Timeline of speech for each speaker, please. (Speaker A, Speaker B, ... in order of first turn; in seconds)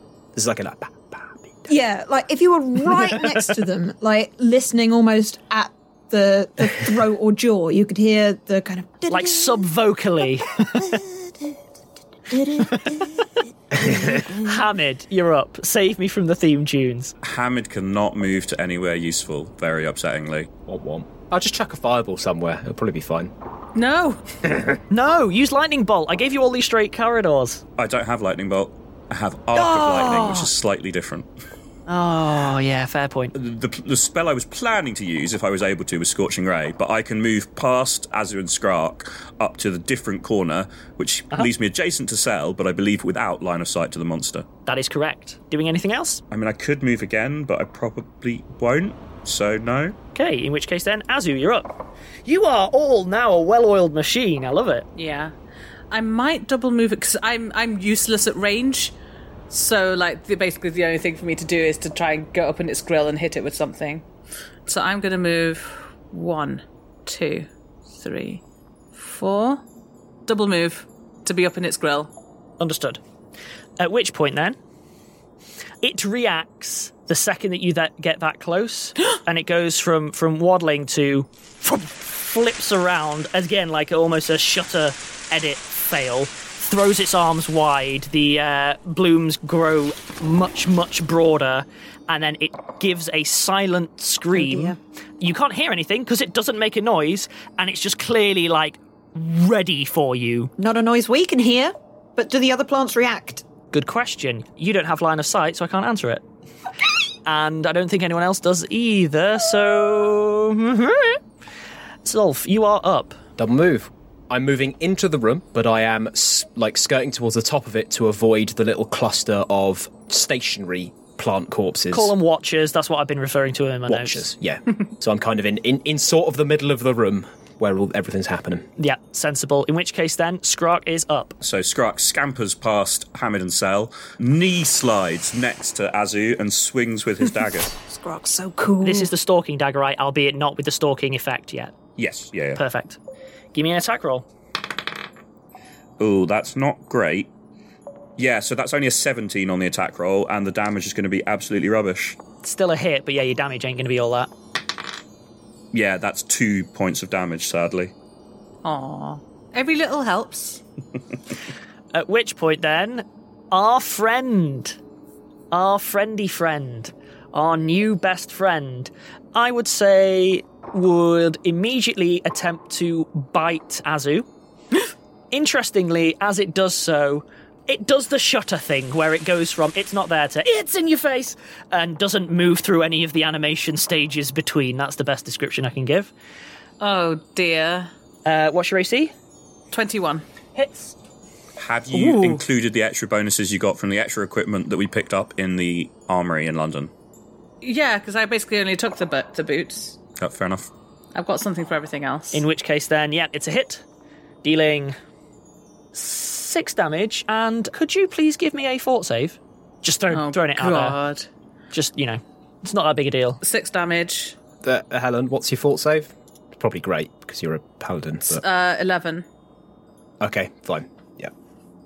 Speaker A: 0.3-1.7, 13.8-14.2, 20.7-23.3, 24.5-24.7, 113.4-122.1, 123.9-128.7, 214.6-218.4, 220.2-221.3
Speaker B: 1.7-9.7, 10.7-11.0, 12.3-13.2, 94.3-94.8, 100.6-103.5, 137.8-139.1
Speaker C: 9.1-10.9, 14.3-17.1, 24.9-27.6, 29.6-30.5, 31.9-33.4, 44.7-46.2, 50.1-51.7, 52.3-54.9, 72.6-73.0, 73.8-74.6, 75.8-100.5, 103.7-106.2, 107.3-111.2, 112.0-113.2, 121.9-124.3, 128.8-131.4, 138.8-141.8, 142.6-143.0, 143.5-144.3, 152.4-154.3, 161.9-164.8, 165.5-174.3, 175.3-186.1, 188.2-189.1, 190.6-190.9, 202.3-203.8, 204.4-205.0, 205.9-211.0, 211.7-213.4
Speaker D: 17.2-20.5, 27.8-31.3, 33.4-44.5, 46.3-50.0, 131.4-137.7, 142.0-142.6, 146.0-147.3, 148.2-152.2, 155.7-157.9, 191.6-196.9, 200.2-200.7
Speaker E: 23.8-24.2, 55.0-55.3, 55.9-59.0, 59.5-64.0, 64.7-68.4, 68.9-69.6, 70.3-72.1, 158.6-160.6, 186.8-187.9, 189.7-190.2, 191.9-192.4, 197.6-200.0, 201.2-202.4, 210.1-211.3, 213.4-214.3, 218.3-219.2